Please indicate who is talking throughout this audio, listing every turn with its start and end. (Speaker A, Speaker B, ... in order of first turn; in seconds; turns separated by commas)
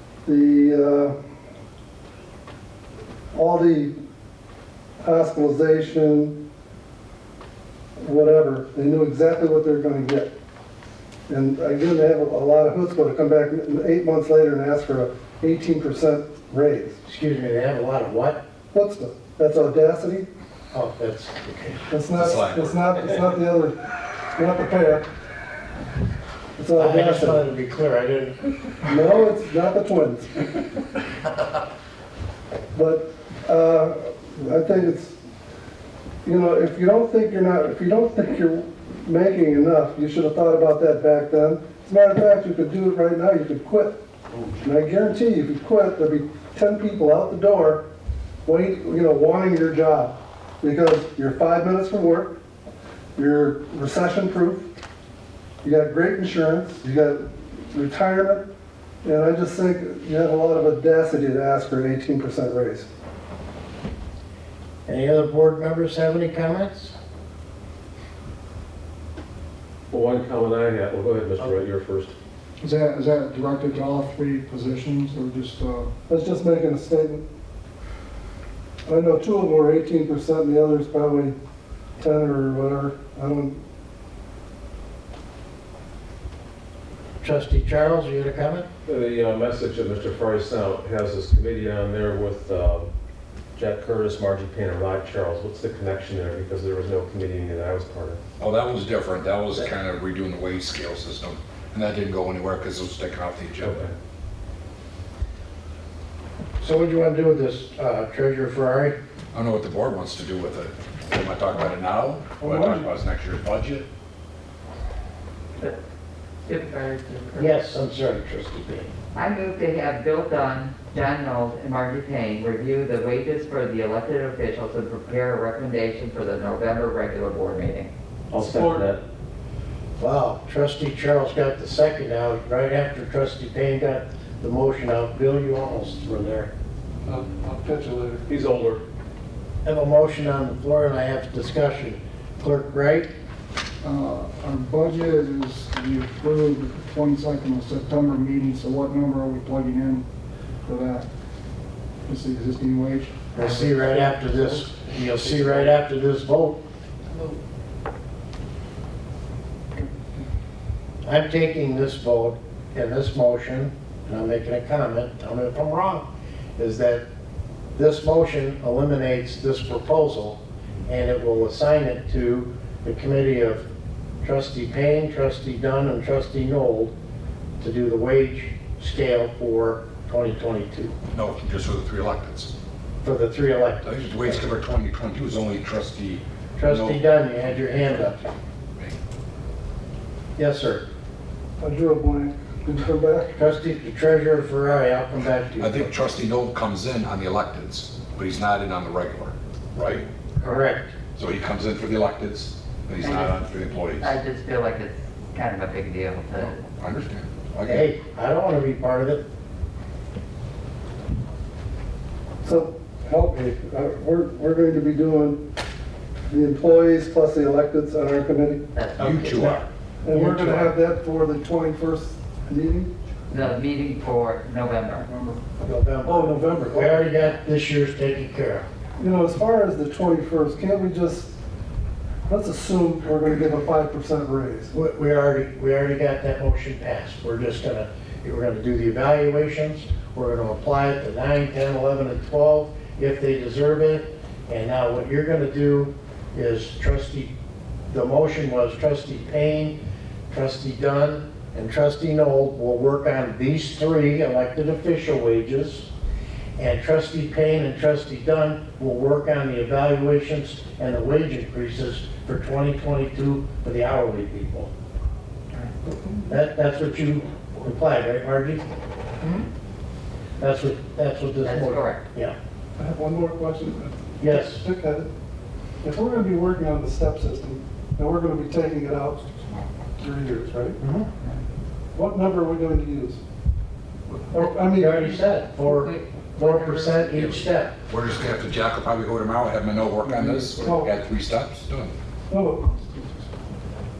Speaker A: 0.3-1.1, Speaker A: 3.3-3.9, Speaker A: 5.0-6.4, Speaker A: 8.0-10.3, Speaker A: 11.3-17.0, Speaker B: 17.1-18.4, Speaker A: 18.7-20.3, Speaker B: 20.7-21.8, Speaker A: 21.9-23.8, Speaker C: 22.2-22.8, Speaker A: 24.4-25.1, Speaker A: 26.6-27.4, Speaker B: 26.8-28.4, Speaker A: 28.9-30.4, Speaker A: 32.7-35.2, Speaker A: 36.2-44.0, Speaker A: 44.6-47.8, Speaker A: 48.5-52.4, Speaker A: 53.2-54.7, Speaker A: 55.6-58.5, Speaker A: 59.0-62.9, Speaker B: 64.9-67.0, Speaker D: 69.9-72.2, Speaker E: 72.6-75.9, Speaker A: 76.1-77.2, Speaker A: 78.9-81.3, Speaker A: 82.0-83.6, Speaker B: 87.2-88.7, Speaker D: 88.8-92.9, Speaker D: 93.5-98.2, Speaker C: 98.4-103.8, Speaker D: 103.6-103.9, Speaker B: 106.6-109.0, Speaker C: 109.3-113.9, Speaker A: 112.4-112.7, Speaker F: 116.5-117.5, Speaker B: 117.4-118.9, Speaker F: 119.2-127.9, Speaker D: 128.3-129.0, Speaker A: 128.4-128.9, Speaker B: 130.0-136.5, Speaker A: 137.1-138.2, Speaker D: 138.3-138.8, Speaker B: 139.7-143.1, Speaker E: 143.8-150.1, Speaker E: 150.6-151.1, Speaker E: 152.1-154.1, Speaker B: 153.3-156.6, Speaker E: 159.8-160.2, Speaker B: 161.0-166.1, Speaker B: 166.6-167.0, Speaker B: 167.8-173.6, Speaker B: 174.2-176.9, Speaker B: 177.6-180.9, Speaker C: 181.1-182.5, Speaker B: 183.0-184.4, Speaker C: 183.8-187.9, Speaker B: 186.6-188.3, Speaker B: 190.4-190.8, Speaker A: 191.6-193.4, Speaker B: 193.4-195.9, Speaker C: 195.6-200.1, Speaker B: 200.4-200.9, Speaker F: 200.4-200.7, Speaker C: 201.2-204.1, Speaker F: 203.0-203.4, Speaker F: 204.0-206.7, Speaker C: 206.3-207.9, Speaker B: 207.6-209.2, Speaker A: 212.4-215.4, Speaker A: 216.3-218.6, Speaker F: 218.8-219.6, Speaker C: 219.0-219.6, Speaker B: 219.0-220.7, Speaker A: 220.0-222.9, Speaker F: 223.3-225.1, Speaker B: 225.6-228.7, Speaker A: 226.1-227.1, Speaker A: 229.0-231.3, Speaker A: 232.3-234.7, Speaker B: 234.7-247.3, Speaker B: 247.9-249.8, Speaker B: 250.3-255.9, Speaker B: 256.6-264.7, Speaker B: 266.3-268.6, Speaker B: 270.4-272.4, Speaker F: 271.4-272.0, Speaker A: 272.8-275.1, Speaker B: 274.2-274.6, Speaker A: 275.8-280.8, Speaker B: 280.8-281.1, Speaker A: 281.9-283.2, Speaker A: 284.3-285.2, Speaker B: 284.6-287.8, Speaker F: 285.6-287.5, Speaker C: 287.9-291.9, Speaker E: 290.0-290.8, Speaker A: 290.6-290.9, Speaker A: 292.3-292.8, Speaker E: 292.8-293.1